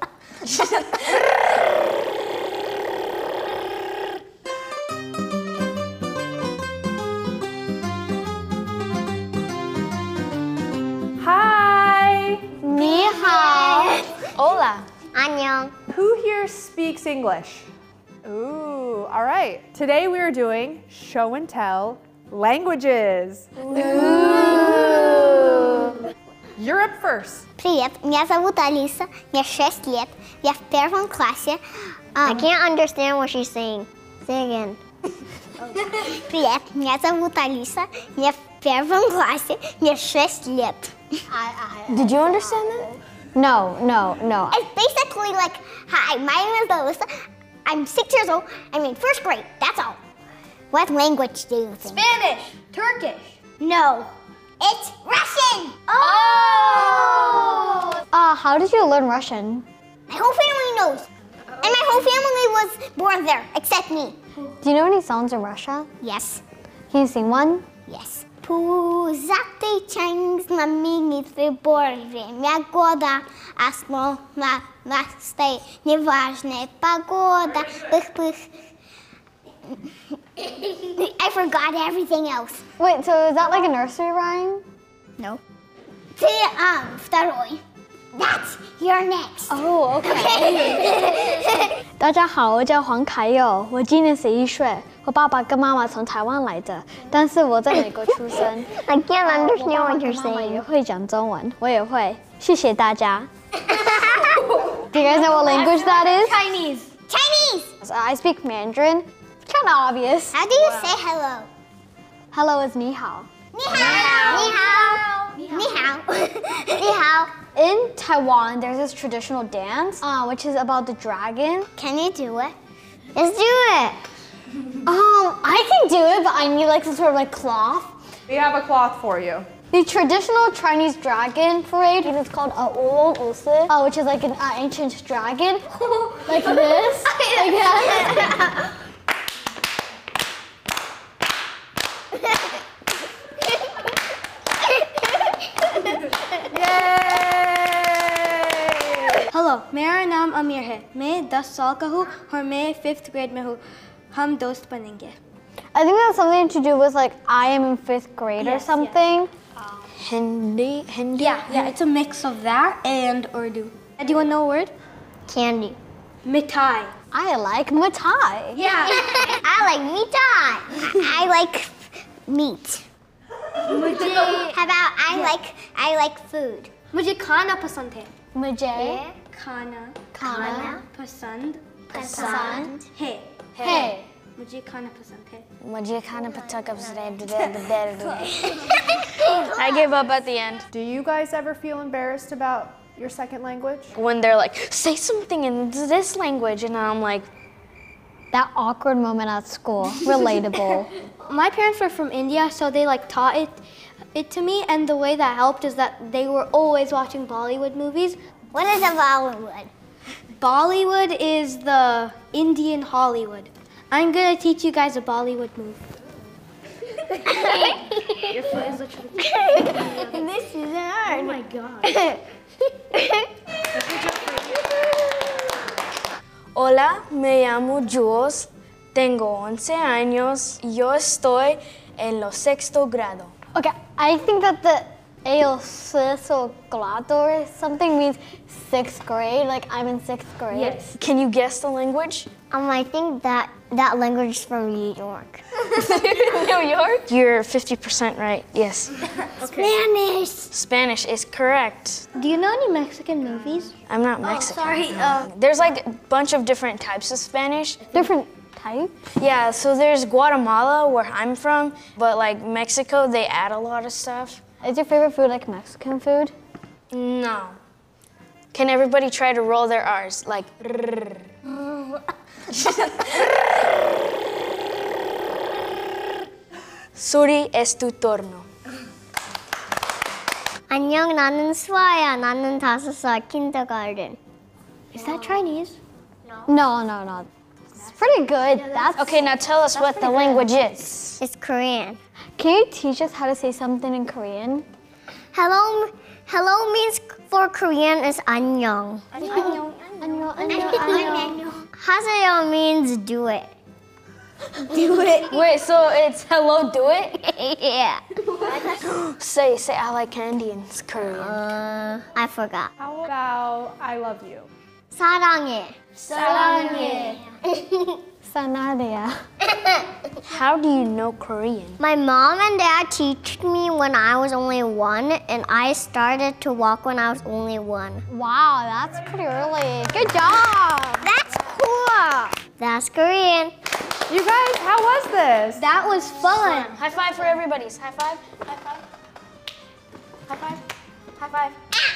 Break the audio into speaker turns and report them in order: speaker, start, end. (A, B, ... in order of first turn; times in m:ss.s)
0:00.4-0:01.2 A
0:11.2-0:12.5 B
0:12.6-0:14.0 C
0:12.7-0:14.2 D
0:14.3-0:14.8 A
0:15.1-0:15.7 D
0:15.9-0:17.7 B
0:18.2-0:24.8 B
0:23.7-0:25.6 A
0:24.0-0:24.4 C
0:26.6-0:27.4 B
0:27.6-0:34.8 D
0:35.6-0:36.0 E
0:35.8-0:41.2 D
0:41.3-0:44.6 C
0:41.9-0:42.9 A
0:44.5-0:50.0 D
0:50.7-0:52.0 D
0:51.8-0:54.1 E
0:54.6-0:57.9 D
0:55.9-0:57.8 E
0:56.5-0:59.6 C
1:00.1-1:01.1 D
1:01.6-1:04.2 D
1:04.6-1:05.9 C
1:06.0-1:06.4 D
1:06.9-1:07.7 C
1:07.9-1:18.5 D
1:20.4-1:22.6 D
1:22.8-1:24.6 C
1:26.2-1:27.6 D
1:28.1-1:31.8 D
1:29.5-1:31.2 C
1:32.0-1:43.3 C
1:38.7-1:40.6 D
1:43.6-1:44.5 D
1:44.9-1:46.5 C
1:44.9-1:46.9 E
1:47.1-1:47.7 D
1:47.8-1:50.4 C
1:50.3-1:51.5 D
1:52.3-1:54.6 C
1:53.5-1:57.4 D
1:53.7-1:55.7 E
1:57.5-2:01.7 C
2:01.7-2:02.5 D
2:03.1-2:04.0 D
2:04.8-2:07.9 C
2:08.3-2:09.5 B
2:09.7-2:18.5 C
2:26.5-2:29.2 B
2:29.3-2:35.2 E
2:35.7-2:39.3 C
2:38.4-2:39.0 E
2:40.0-2:41.7 A
2:41.2-2:44.7 E
2:45.3-2:45.8 D
2:46.2-2:46.9 E
2:47.1-2:48.7 C
2:48.5-2:49.4 E
2:48.6-2:52.8 D
2:53.6-2:55.4 E
2:54.2-2:56.7 D
2:56.9-2:58.1 E
2:58.3-2:59.0 C
2:58.7-2:59.2 D
2:59.3-3:05.4 E
3:00.1-3:00.8 C
3:00.2-3:00.8 D
3:01.9-3:02.9 D
3:02.0-3:02.7 C
3:03.6-3:03.9 A
3:03.6-3:04.0 C
3:05.6-3:10.7 A
3:06.2-3:07.2 D
3:08.5-3:09.8 D
3:10.7-3:13.9 B
3:13.9-3:17.3 A
3:18.3-3:20.9 C
3:21.3-3:23.6 E
3:24.1-3:28.2 E
3:28.5-3:29.7 D
3:30.4-3:35.8 E
3:37.1-3:40.3 E
3:37.3-3:38.2 D
3:39.3-3:42.2 D
3:41.0-3:42.1 E
3:42.8-3:43.3 D
3:44.1-3:44.6 E
3:46.5-3:53.3 A
3:53.5-4:00.8 C
4:00.5-4:01.0 E
4:00.9-4:02.3 A
4:02.5-4:05.4 D
4:05.8-4:09.0 A
4:05.9-4:06.9 E
4:09.4-4:09.7 E
4:09.4-4:10.5 D
4:10.5-4:12.0 A
4:12.1-4:15.3 E
4:13.9-4:17.8 A
4:17.9-4:18.9 C
4:19.2-4:24.4 A
4:24.6-4:26.3 C
4:26.9-4:27.6 A
4:28.5-4:31.3 A
4:32.5-4:33.2 A
4:36.9-4:38.5 A
4:40.7-4:44.2 D
4:44.9-4:45.8 E
4:46.4-4:47.3 C
4:47.8-4:49.0 E
4:47.8-4:49.3 C
4:48.9-4:51.2 A
4:49.8-4:50.2 E
4:51.2-4:52.0 D
4:52.4-4:54.6 C
4:55.3-4:59.3 D
4:59.1-5:01.4 E
4:59.2-5:01.4 C
4:59.3-4:59.6 A
5:00.5-5:03.5 D
5:04.7-5:05.3 D
5:05.2-5:07.3 A
5:07.3-5:08.0 D
5:08.7-5:11.4 A
5:11.0-5:12.7 D
5:12.8-5:14.5 B
5:14.9-5:18.0 D
5:16.1-5:17.2 E
5:16.2-5:17.2 C
5:16.2-5:16.8 A
5:16.5-5:16.9 B
5:18.2-5:19.2 C
5:19.5-5:19.9 D
5:20.2-5:21.8 A
5:21.8-5:28.0 D
5:28.1-5:31.1 C
5:31.0-5:33.5 D
5:34.1-5:35.6 B
5:35.5-5:36.8 E
5:36.2-5:38.8 A
5:40.3-5:40.6 E
5:41.2-5:41.5 E